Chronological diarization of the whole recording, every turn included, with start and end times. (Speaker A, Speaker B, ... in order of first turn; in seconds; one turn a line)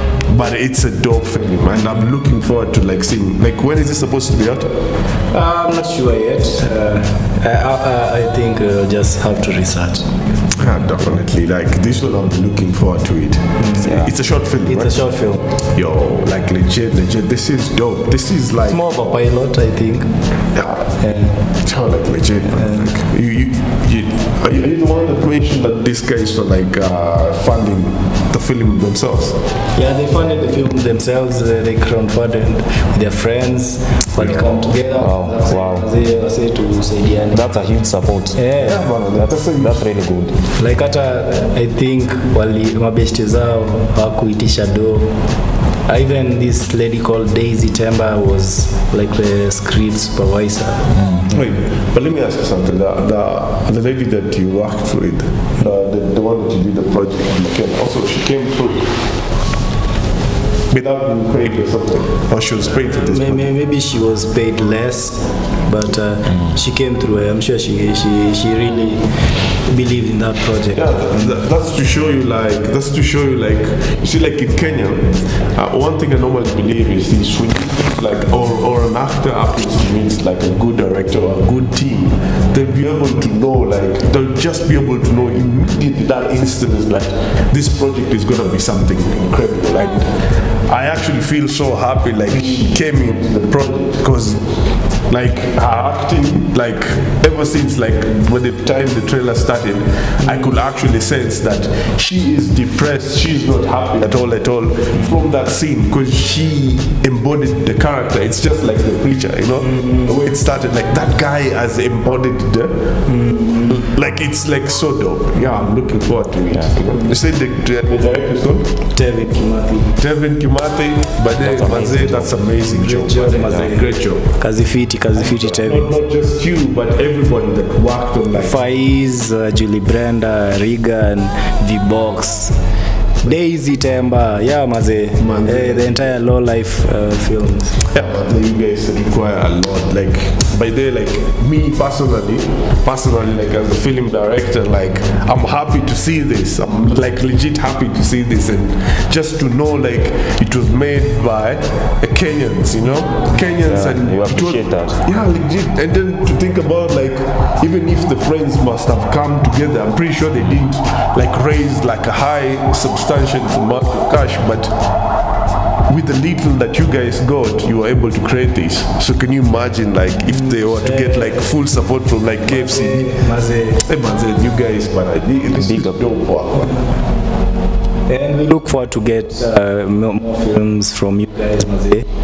Speaker A: 0.3-4.7
Speaker B: 5.3-10.1
Speaker A: 10.5-15.0
Speaker B: 13.6-15.4
Speaker A: 15.7-18.8
Speaker B: 18.7-20.1
Speaker A: 20.6-21.0
Speaker B: 21.0-21.4
Speaker A: 21.6-29.4
Speaker B: 22.5-22.9
Speaker B: 29.8-37.6
Speaker C: 35.0-35.9
Speaker C: 37.3-38.4
Speaker B: 38.3-38.9
Speaker A: 38.6-39.9
Speaker C: 39.1-40.4
Speaker B: 40.5-45.1
Speaker B: 45.9-50.9
Speaker C: 51.0-51.3
Speaker A: 51.3-58.9
Speaker A: 60.7-63.5
Speaker B: 62.9-69.0
Speaker B: 69.7-71.5
Speaker A: 70.7-94.4
Speaker A: 95.1-112.8
Speaker B: 109.7-110.0
Speaker B: 113.1-113.9
Speaker A: 113.7-118.7
Speaker C: 116.5-117.1
Speaker B: 118.9-120.0
Speaker A: 120.0-124.3
Speaker C: 121.3-122.5
Speaker B: 122.7-125.9
Speaker A: 125.2-128.6
Speaker B: 128.3-132.6
Speaker B: 133.2-137.8
Speaker A: 135.2-136.1
Speaker A: 137.9-164.7
Speaker C: 153.6-155.0
Speaker A: 165.9-173.1
Speaker B: 170.3-171.5
Speaker B: 172.4-173.8
Speaker A: 173.8-176.6
Speaker C: 175.6-176.0
Speaker B: 178.1-182.1